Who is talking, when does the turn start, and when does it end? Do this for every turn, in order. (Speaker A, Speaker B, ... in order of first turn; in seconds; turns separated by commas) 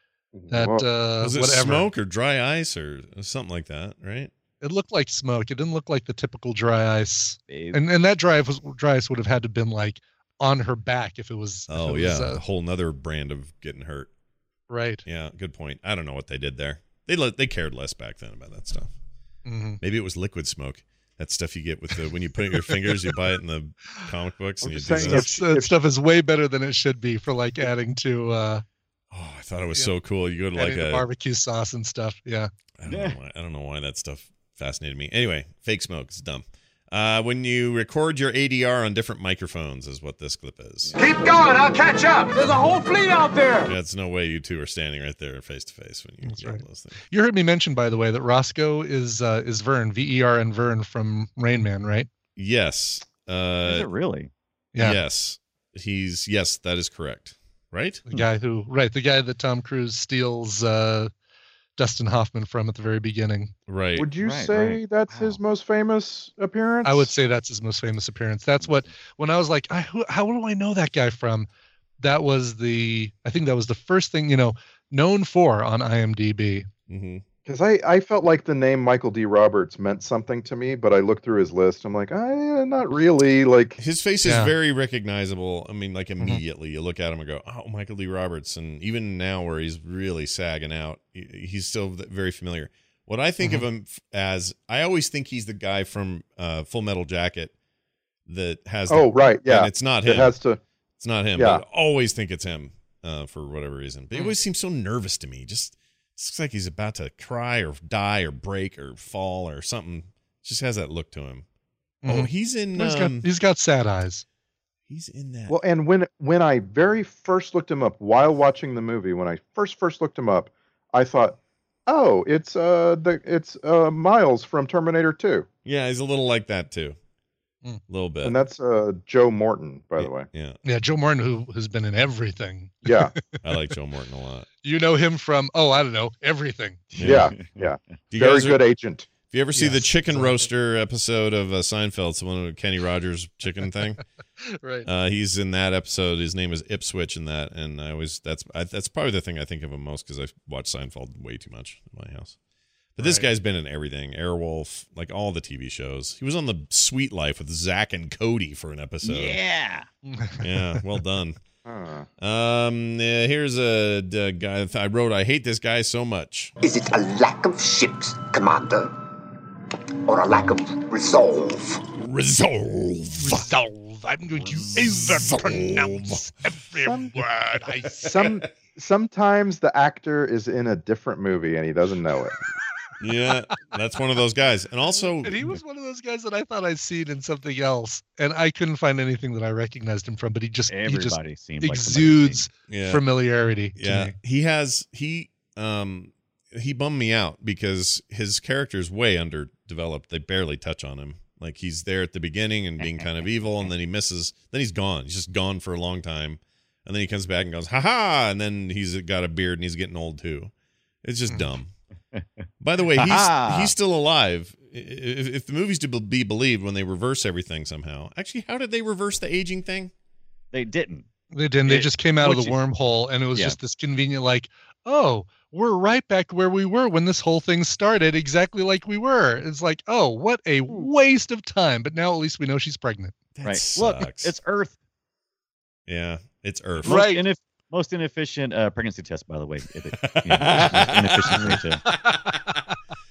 Speaker A: 0.3-0.9, Speaker B: 0.5-1.9, Speaker C: 1.2-4.3, Speaker B: 4.6-12.4, Speaker D: 7.5-7.8, Speaker C: 11.7-14.1, Speaker B: 14.7-15.0, Speaker C: 15.0-18.9, Speaker B: 19.4-19.8, Speaker C: 19.8-25.3, Speaker A: 24.6-25.7, Speaker B: 24.9-28.6, Speaker C: 29.1-31.1, Speaker B: 30.6-32.5, Speaker C: 32.8-40.9, Speaker D: 32.8-33.2, Speaker E: 41.0-43.7, Speaker C: 43.6-47.0, Speaker B: 46.2-52.1, Speaker C: 52.4-53.9, Speaker D: 53.6-54.3, Speaker C: 54.8-58.0, Speaker B: 58.1-61.1, Speaker B: 61.8-63.5, Speaker C: 63.7-64.1, Speaker A: 64.0-67.1, Speaker D: 64.2-65.4, Speaker B: 66.8-71.5, Speaker B: 72.0-76.7, Speaker C: 76.9-77.2, Speaker A: 77.5-83.8, Speaker C: 83.8-97.5, Speaker B: 84.2-84.5, Speaker C: 98.3-100.3, Speaker A: 98.9-100.6, Speaker C: 101.0-111.4, Speaker A: 101.3-101.6, Speaker B: 112.0-114.2, Speaker C: 112.0-113.2, Speaker C: 114.9-115.5, Speaker A: 115.5-125.5, Speaker C: 125.6-127.0, Speaker C: 127.9-128.3, Speaker A: 128.2-130.3, Speaker C: 130.0-130.6, Speaker B: 130.6-133.1, Speaker A: 132.8-133.1, Speaker C: 133.4-134.5, Speaker B: 134.6-136.9, Speaker D: 137.0-137.5, Speaker C: 137.0-137.3, Speaker A: 137.0-139.1, Speaker C: 138.1-138.6, Speaker C: 139.3-144.0, Speaker B: 139.5-140.5, Speaker B: 144.6-144.9, Speaker C: 144.8-152.3, Speaker C: 152.9-159.4, Speaker B: 153.0-153.2, Speaker D: 159.0-159.9, Speaker B: 160.1-160.8, Speaker C: 160.4-161.4, Speaker A: 161.6-162.1, Speaker C: 162.2-166.5, Speaker F: 166.7-168.9, Speaker F: 170.1-171.7, Speaker C: 172.0-173.5, Speaker B: 173.1-178.3, Speaker C: 174.4-176.2, Speaker A: 176.8-177.1, Speaker A: 178.0-182.3, Speaker C: 183.0-185.6, Speaker B: 185.2-194.1, Speaker D: 190.7-192.4, Speaker C: 192.7-193.0, Speaker C: 193.8-210.5, Speaker C: 211.0-211.7, Speaker C: 212.6-219.9, Speaker D: 212.9-213.7, Speaker D: 220.5-221.0, Speaker B: 221.3-233.1, Speaker D: 221.7-222.6, Speaker C: 233.3-234.3, Speaker D: 233.4-234.7, Speaker C: 235.9-237.0, Speaker B: 236.8-237.2, Speaker D: 236.8-241.8, Speaker C: 239.9-241.6, Speaker B: 241.8-242.6